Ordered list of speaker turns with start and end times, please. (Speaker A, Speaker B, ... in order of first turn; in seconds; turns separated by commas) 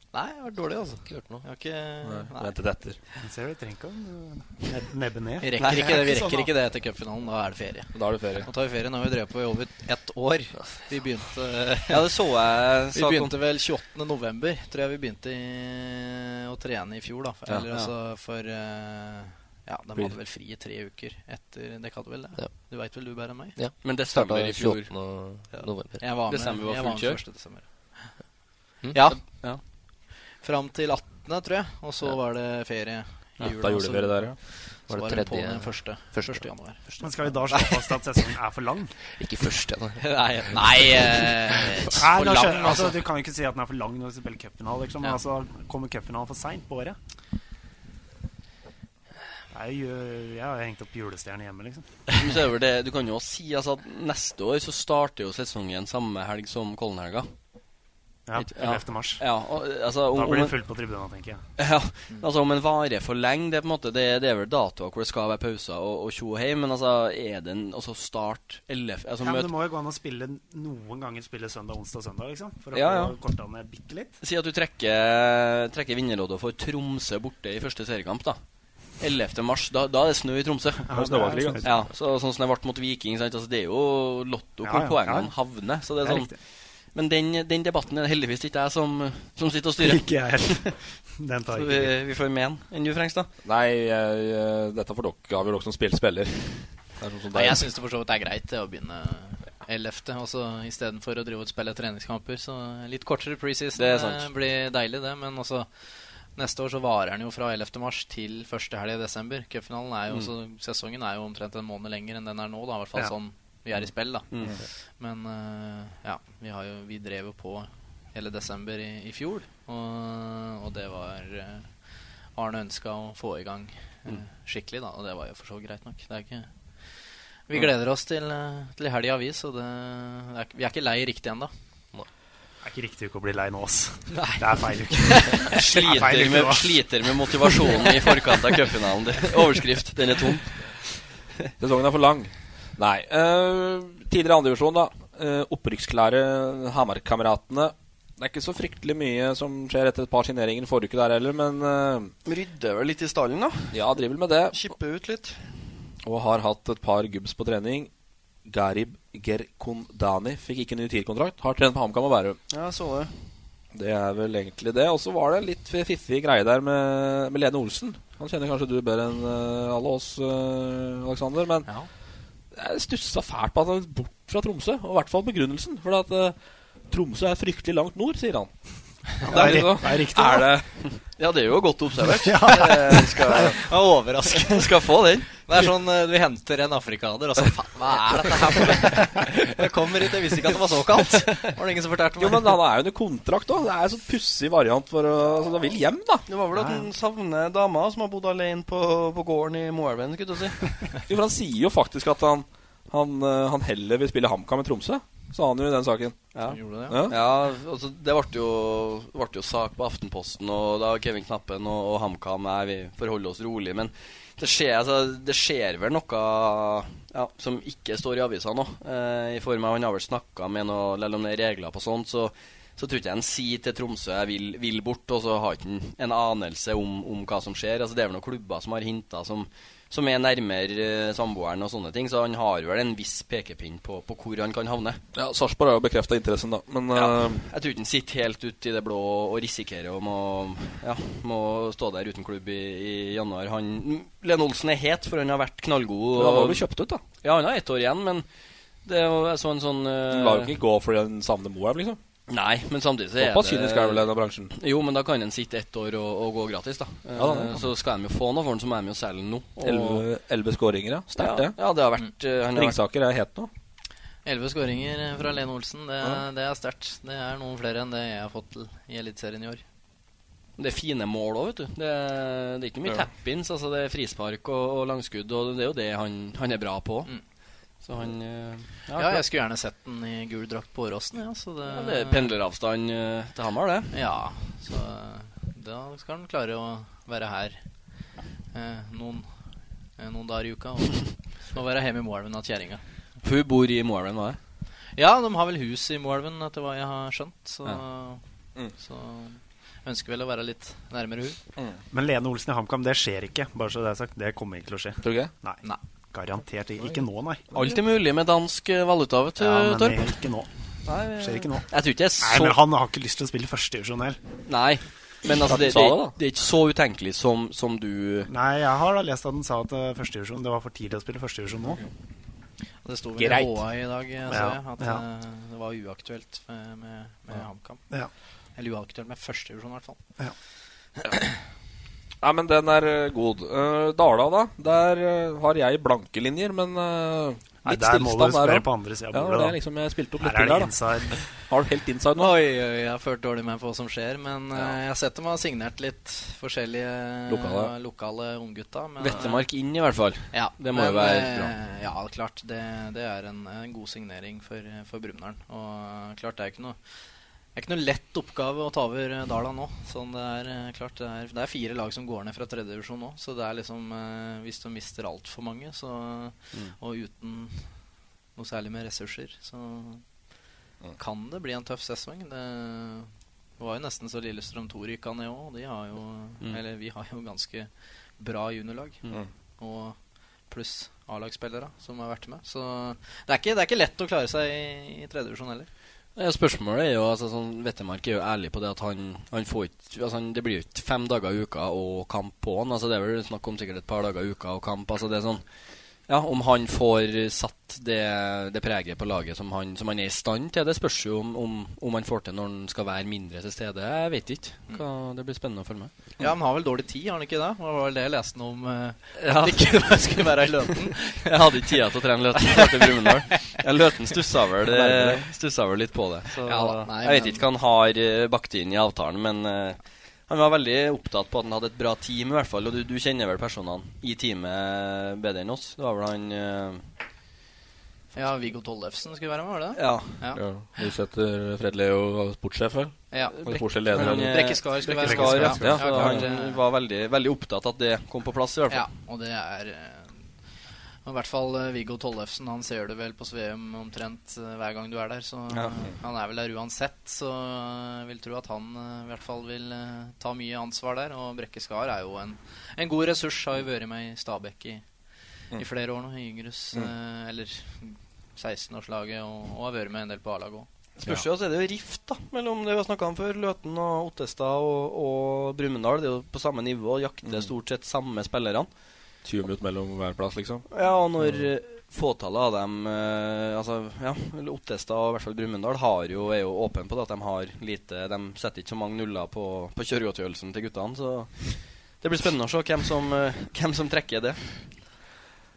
Speaker A: 0.1-2.5, Speaker B: 1.1-1.4, Speaker C: 2.0-3.0, Speaker D: 3.2-6.5, Speaker A: 5.4-12.1, Speaker E: 5.6-6.0, Speaker C: 7.9-8.5, Speaker E: 11.9-13.4, Speaker A: 12.9-23.6, Speaker E: 17.6-17.9, Speaker B: 22.4-22.7, Speaker B: 23.6-26.1, Speaker E: 23.8-24.9, Speaker A: 25.6-28.2, Speaker E: 26.3-27.2, Speaker A: 28.9-29.4, Speaker E: 29.1-29.6, Speaker A: 30.0-37.6, Speaker C: 33.4-34.4, Speaker B: 34.9-37.0, Speaker D: 37.0-39.0, Speaker B: 39.2-40.9, Speaker A: 40.0-43.0, Speaker D: 42.0-47.0, Speaker D: 49.5-51.9, Speaker E: 52.1-57.3, Speaker D: 58.3-59.2, Speaker E: 58.4-60.6, Speaker D: 60.1-61.4, Speaker E: 61.6-69.5, Speaker D: 69.2-74.2, Speaker E: 72.7-73.2, Speaker E: 74.2-78.4, Speaker E: 79.0-80.9, Speaker D: 80.9-81.8, Speaker C: 80.9-81.7, Speaker E: 81.6-90.2, Speaker D: 84.6-85.3, Speaker D: 86.0-86.3, Speaker D: 89.8-91.9, Speaker E: 91.5-93.3, Speaker C: 93.5-97.7, Speaker A: 97.3-105.7, Speaker E: 103.8-104.3, Speaker A: 106.3-126.5, Speaker A: 127.5-131.5, Speaker D: 132.6-136.9, Speaker A: 134.1-135.6, Speaker E: 135.5-140.7, Speaker D: 137.4-137.9, Speaker C: 141.6-152.1, Speaker E: 152.3-153.8, Speaker C: 153.7-154.6, Speaker E: 154.5-155.5, Speaker C: 156.0-157.9, Speaker C: 158.5-162.4, Speaker E: 162.5-163.2, Speaker C: 163.7-171.7, Speaker C: 172.5-176.4, Speaker C: 176.9-178.5, Speaker C: 179.1-180.7, Speaker D: 179.2-180.5, Speaker E: 180.8-183.6, Speaker D: 182.0-183.5, Speaker A: 183.5-184.7, Speaker E: 184.3-185.4, Speaker A: 185.3-192.6, Speaker C: 192.2-196.3, Speaker E: 196.3-200.8, Speaker D: 196.5-196.9, Speaker C: 201.1-206.2, Speaker E: 206.3-235.0, Speaker A: 206.5-207.0, Speaker C: 206.9-207.2, Speaker C: 235.2-237.4, Speaker E: 236.9-246.7, Speaker C: 246.2-247.0, Speaker E: 247.2-248.3, Speaker E: 248.8-250.6, Speaker C: 250.1-252.0, Speaker E: 252.3-260.1, Speaker C: 253.2-254.5, Speaker C: 257.1-257.7, Speaker C: 259.6-261.6, Speaker E: 261.2-262.8, Speaker C: 262.5-263.5, Speaker A: 264.2-269.6, Speaker E: 270.6-277.1, Speaker E: 277.8-279.2, Speaker A: 278.9-282.3, Speaker E: 281.7-283.9, Speaker A: 283.9-287.6, Speaker A: 288.5-289.3, Speaker A: 290.0-292.8, Speaker E: 293.2-294.4, Speaker A: 295.0-298.2, Speaker A: 298.8-301.4, Speaker D: 301.9-305.6, Speaker C: 305.0-305.3, Speaker D: 306.1-307.5, Speaker E: 307.5-310.1, Speaker D: 309.4-310.5, Speaker E: 310.9-312.6, Speaker D: 311.0-314.2, Speaker E: 314.5-318.3, Speaker C: 315.4-316.1, Speaker D: 318.3-321.8, Speaker A: 322.8-327.9, Speaker C: 323.2-323.6, Speaker D: 324.3-325.0, Speaker A: 328.6-330.0, Speaker C: 332.2-342.4, Speaker D: 337.6-339.7, Speaker D: 340.2-341.2, Speaker A: 342.1-349.5, Speaker C: 347.3-347.7, Speaker E: 349.0-351.5, Speaker A: 350.3-367.8, Speaker A: 368.4-370.1, Speaker A: 371.0-379.0, Speaker A: 379.6-385.7, Speaker E: 386.2-405.9, Speaker A: 406.2-411.3, Speaker E: 409.2-426.8, Speaker A: 412.5-413.5, Speaker C: 414.8-415.2, Speaker A: 416.5-417.5, Speaker A: 428.1-430.9, Speaker E: 429.8-430.2, Speaker C: 430.3-434.8, Speaker A: 433.1-436.6, Speaker E: 433.5-438.8, Speaker D: 435.0-435.8, Speaker C: 435.4-436.3, Speaker A: 438.7-440.3, Speaker A: 441.0-454.8, Speaker E: 445.5-445.8, Speaker A: 455.6-460.7, Speaker E: 461.0-468.7, Speaker C: 467.2-467.5, Speaker C: 469.2-470.7, Speaker E: 470.7-484.7, Speaker C: 471.2-471.4